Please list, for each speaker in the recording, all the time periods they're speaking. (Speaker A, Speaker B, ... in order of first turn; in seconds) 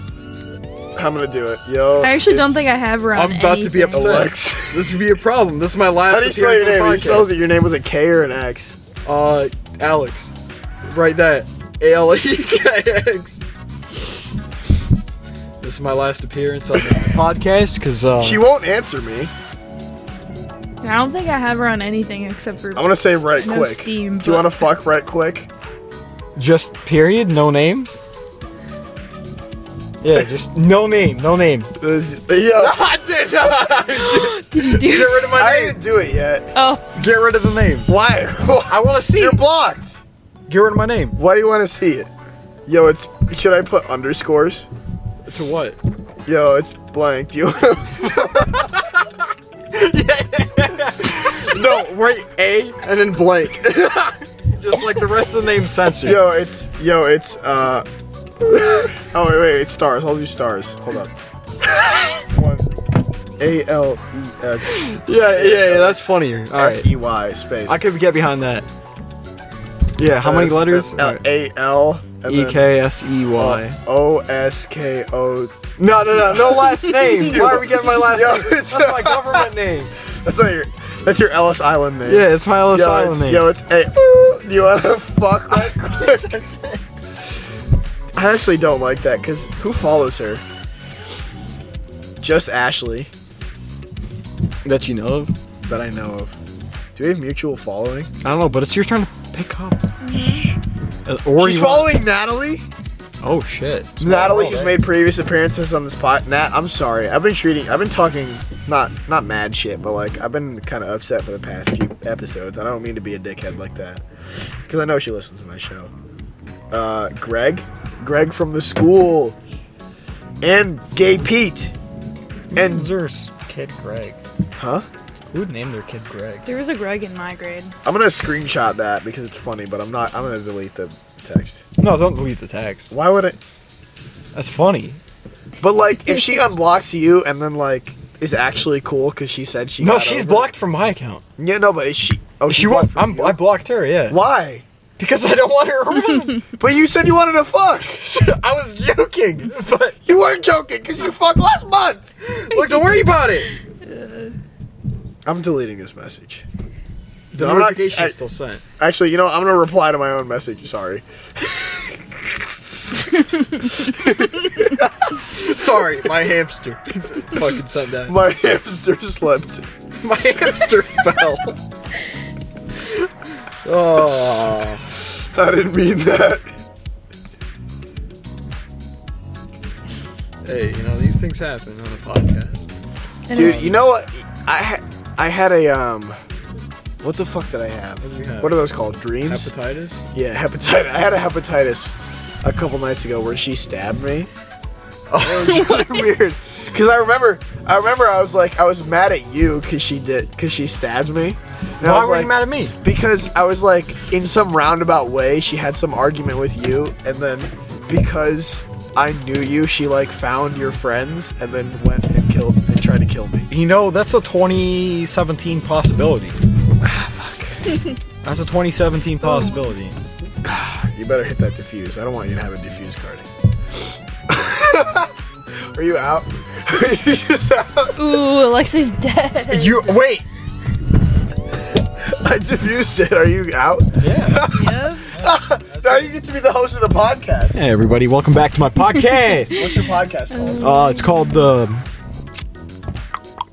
Speaker A: 1.0-2.7, 3.9-4.9, 6.0-8.8, 18.2-19.3, 22.8-25.5, 31.8-32.9, 35.3-36.5, 37.9-40.0, 41.2-42.1, 42.7-44.7, 46.3-48.8, 51.5-51.8, 56.0-57.9, 58.4-61.1, 62.2-62.7, 63.4-66.0, 66.5-67.8, 70.2-72.7, 73.4-79.5, 80.1-86.5, 88.2-90.4, 92.2-93.1, 95.7-96.4, 97.0-98.1, 101.4-102.7, 104.0-114.0, 114.7-115.9, 116.7-119.4, 120.4-121.7, 122.5-122.9, 124.6-124.9, 127.8-131.6, 132.9-133.4, 135.6-140.5, 141.4-143.4, 144.1-144.6, 146.6-148.3, 150.1-152.1, 155.3-156.4, 157.3-158.2, 158.8-164.9, 168.1-169.7, 175.3-176.5, 183.3-186.2, 187.0-189.5, 190.1-194.3, 195.2-213.5, 216.8-217.8, 220.4-223.3, 224.3-225.1, 225.7-228.2, 232.0-237.6, 239.5-240.8
Speaker B: 2.0-4.3, 20.8-24.6, 33.9-35.4, 36.5-36.9, 100.0-100.5, 126.5-127.8, 153.8-154.3, 183.3-183.6, 219.2-219.7, 228.0-230.1, 234.5-235.1, 239.0-241.5
Speaker C: 3.1-7.3, 9.1-10.3, 10.8-13.4, 15.6-18.4, 26.4-27.9, 30.0-31.7, 32.6-35.8, 37.0-37.9, 38.7-39.4, 40.5-41.2, 45.3-45.8, 48.2-49.1, 49.7-56.2, 64.7-66.9, 67.7-68.7, 70.0-71.2, 72.3-73.8, 75.8-79.9, 82.0-83.5, 85.7-86.7, 94.6-95.3, 98.2-102.0, 103.2-104.8, 122.5-124.2, 125.3-126.4, 131.8-132.9, 134.3-135.0, 139.8-141.2, 142.5-144.2, 145.0-146.5, 148.1-150.0, 152.2-153.5, 157.3-158.6, 164.6-168.2, 170.0-171.6, 173.6-174.9, 180.4-182.7, 183.3-183.8, 188.0-188.7, 189.2-190.1, 195.1-196.1, 201.8-202.8, 213.5-216.4, 218.2-220.0, 229.5-230.2, 234.0-236.1, 237.6-239.6, 240.6-241.9